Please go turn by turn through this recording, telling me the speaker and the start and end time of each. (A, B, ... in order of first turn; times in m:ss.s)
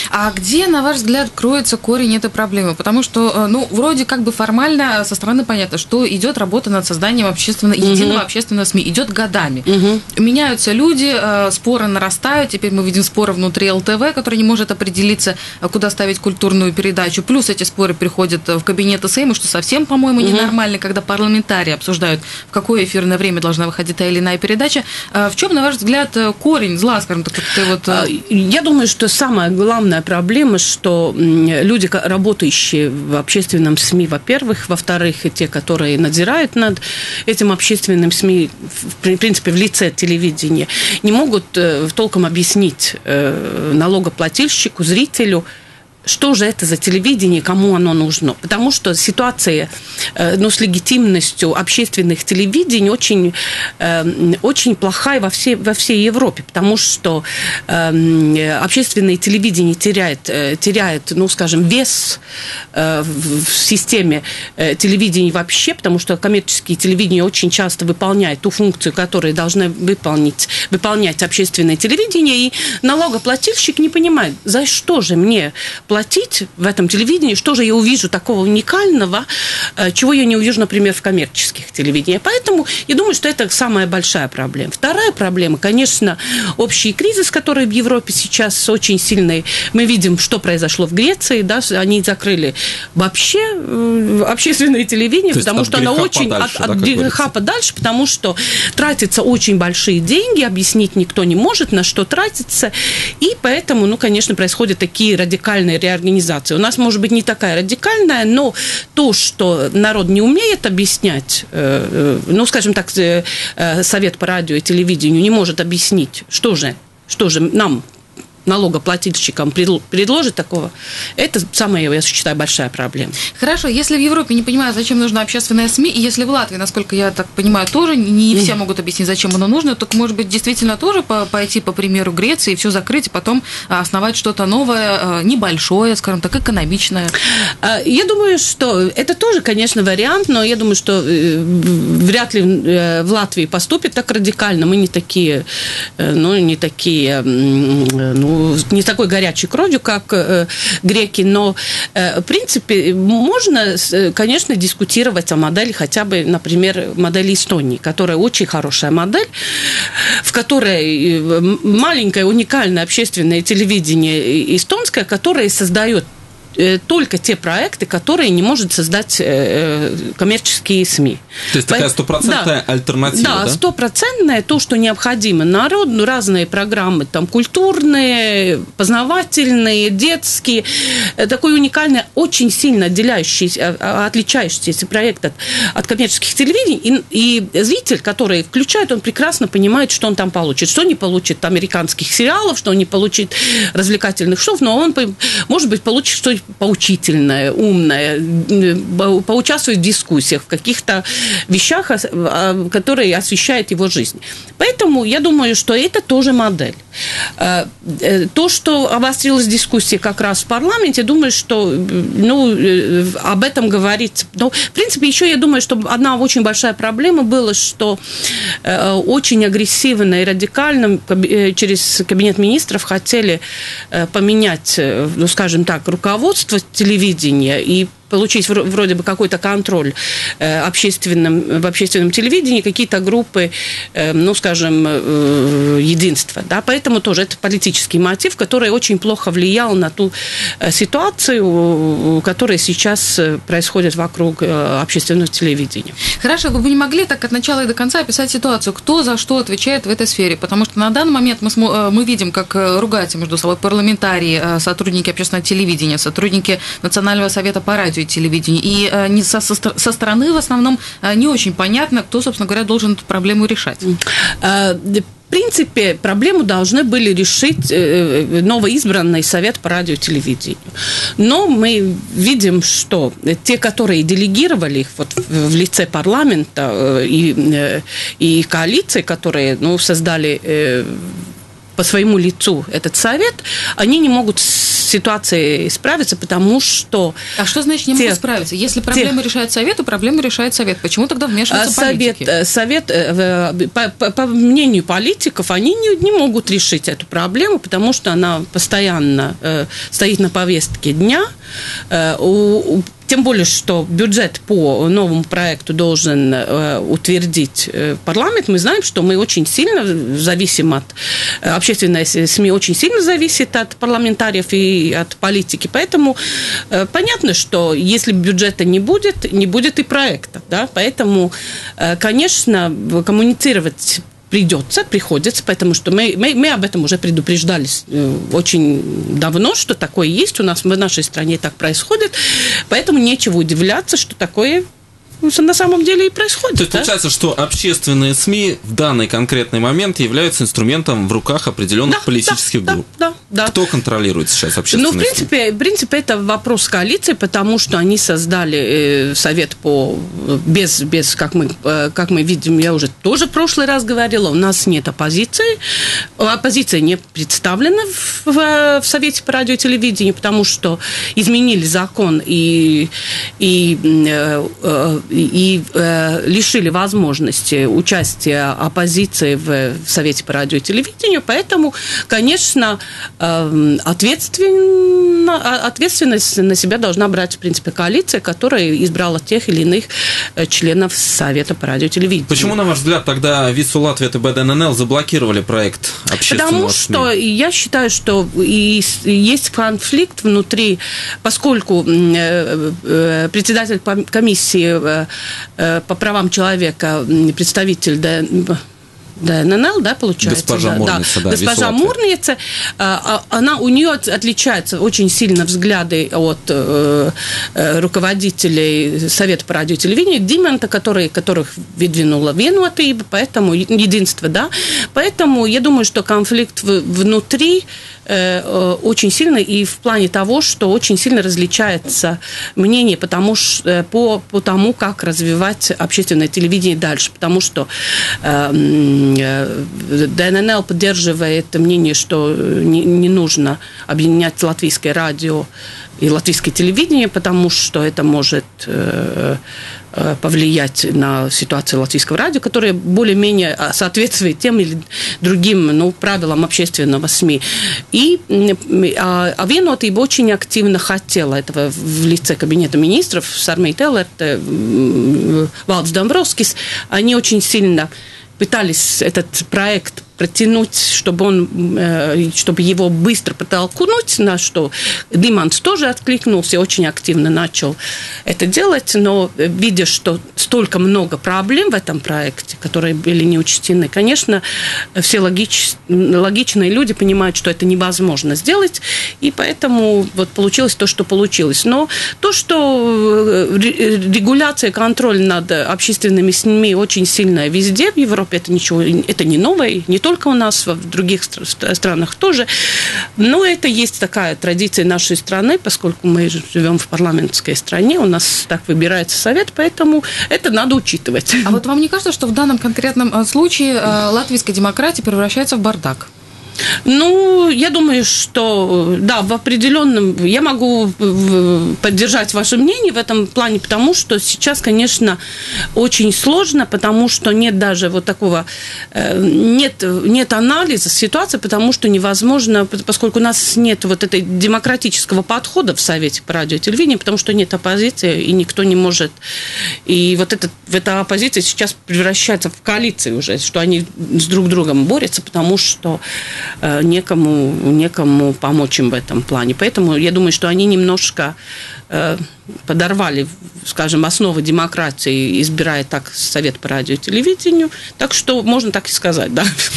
0:00.1-0:28.1 A
0:07.8-0:08.2 B
0:09.7-0:10.0 B
0:20.2-0:20.5 B
0:27.9-0:45.4 B
0:46.1-1:02.2 B
1:02.7-1:57.8 B
1:35.3-1:37.3 C
1:58.5-2:03.2 B
2:03.4-2:17.1 A
2:17.6-2:25.5 B
2:26.0-2:46.0 B
2:46.6-2:52.5 B
2:51.5-2:53.6 C
2:53.1-3:26.8 B
3:27.4-3:38.0 B
3:38.6-3:43.4 B
3:43.9-4:06.0 B
4:06.2-4:23.8 A
4:24.4-4:30.6 B
4:31.2-4:41.2 B
4:41.8-4:47.2 B
4:47.4-4:52.3 A
4:51.5-5:01.3 B
5:01.9-5:16.2 B
5:16.7-5:34.7 B
5:35.2-5:36.9 B
5:36.6-5:42.8 C
5:41.9-5:43.6 B
5:43.5-5:45.3 C
5:44.7-5:55.6 B
5:56.2-6:22.6 B
6:22.3-6:27.1 C
6:26.3-6:38.6 B
6:39.2-7:07.7 B
6:40.2-6:41.9 C
7:08.2-7:15.5 B
7:16.0-7:19.4 B
7:19.9-7:54.4 B
7:55.0-8:12.5 B
8:13.2-8:21.6 B
8:21.4-8:26.1 A
8:26.9-8:35.2 B
8:35.8-8:49.2 B
8:49.9-8:56.0 B
8:56.6-9:01.4 B
9:01.9-9:09.5 B